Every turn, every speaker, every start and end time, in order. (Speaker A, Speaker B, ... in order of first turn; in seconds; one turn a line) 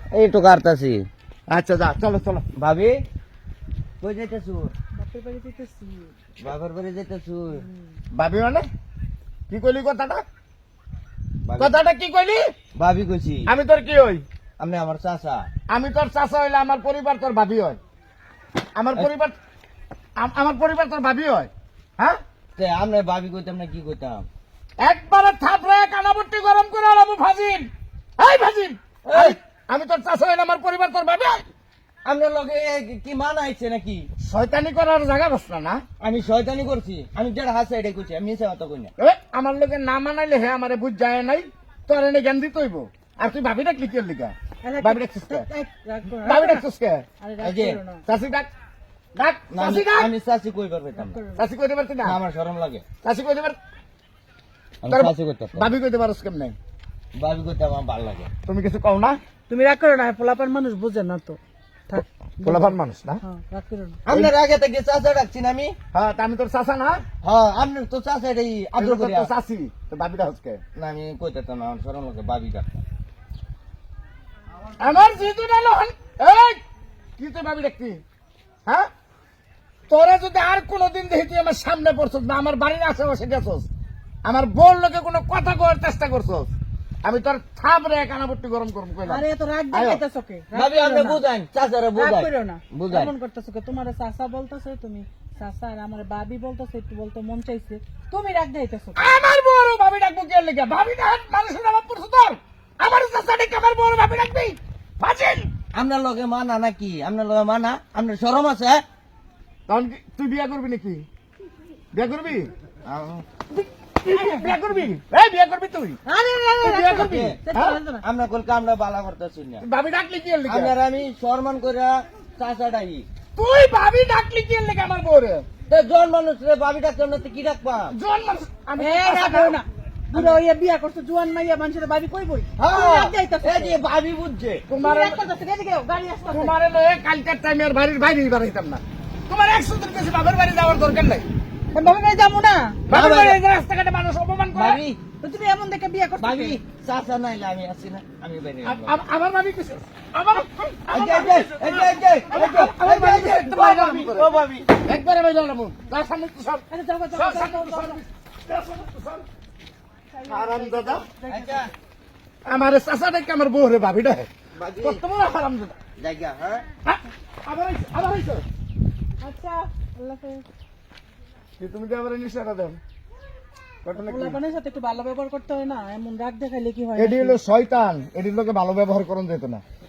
Speaker A: 0.1-1.1
Speaker B: 1.5-2.4
Speaker A: 2.6-3.0
Speaker A: 4.0-4.7
Speaker C: 4.9-6.1
Speaker A: 6.4-7.6
Speaker C: 7.5-7.9
Speaker B: 8.1-8.6
Speaker B: 9.5-10.2
Speaker A: 11.4-11.8
Speaker B: 11.6-12.4
Speaker A: 12.8-13.5
Speaker B: 13.4-14.2
Speaker A: 14.6-15.5
Speaker B: 15.7-17.8
Speaker B: 18.8-19.4
Speaker B: 20.2-22.2
Speaker A: 22.6-24.3
Speaker B: 24.8-31.4
Speaker A: 29.1-29.4
Speaker A: 32.0-34.0
Speaker B: 34.2-35.8
Speaker A: 36.0-38.9
Speaker B: 39.0-45.5
Speaker C: 44.6-46.6
Speaker B: 46.2-47.0
Speaker C: 47.2-48.0
Speaker A: 47.4-47.8
Speaker B: 48.1-48.5
Speaker B: 49.1-50.1
Speaker A: 49.5-51.2
Speaker C: 51.0-51.4
Speaker B: 51.4-52.2
Speaker A: 52.0-52.8
Speaker B: 53.0-53.6
Speaker A: 54.8-55.7
Speaker B: 54.9-56.5
Speaker A: 57.2-58.3
Speaker B: 58.5-59.2
Speaker C: 59.5-64.0
Speaker B: 62.4-63.2
Speaker A: 64.0-65.8
Speaker B: 65.9-67.0
Speaker A: 67.2-69.3
Speaker B: 68.8-70.6
Speaker A: 70.8-72.8
Speaker B: 74.8-76.6
Speaker B: 77.2-78.0
Speaker B: 79.9-83.7
Speaker B: 84.2-86.5
Speaker B: 87.0-90.0
Speaker C: 89.0-91.2
Speaker A: 90.5-93.1
Speaker C: 91.9-99.2
Speaker B: 99.0-105.5
Speaker A: 105.7-108.8
Speaker B: 109.7-111.0
Speaker B: 111.9-112.5
Speaker A: 112.8-113.2
Speaker C: 113.6-114.4
Speaker B: 114.0-116.0
Speaker C: 116.0-118.0
Speaker B: 116.6-117.8
Speaker A: 116.9-117.4
Speaker A: 118.0-119.6
Speaker B: 119.6-120.7
Speaker A: 120.5-123.1
Speaker B: 123.3-125.5
Speaker A: 125.7-127.9
Speaker B: 127.9-129.6
Speaker C: 128.8-133.8
Speaker A: 132.6-134.7
Speaker B: 134.7-135.2
Speaker C: 134.8-136.5
Speaker B: 136.3-141.2
Speaker C: 141.7-142.8
Speaker B: 142.9-144.8
Speaker A: 142.9-143.4
Speaker A: 144.5-145.0
Speaker C: 145.2-146.6
Speaker A: 146.2-149.0
Speaker B: 148.6-159.2
Speaker A: 150.9-154.7
Speaker C: 156.7-158.0
Speaker C: 160.1-161.7
Speaker B: 160.3-161.1
Speaker A: 161.1-161.7
Speaker B: 162.4-165.8
Speaker A: 164.5-165.0
Speaker A: 166.0-166.7
Speaker B: 166.8-168.4
Speaker C: 169.2-170.4
Speaker B: 171.6-172.8
Speaker B: 173.8-174.4
Speaker C: 174.0-177.4
Speaker B: 176.9-179.6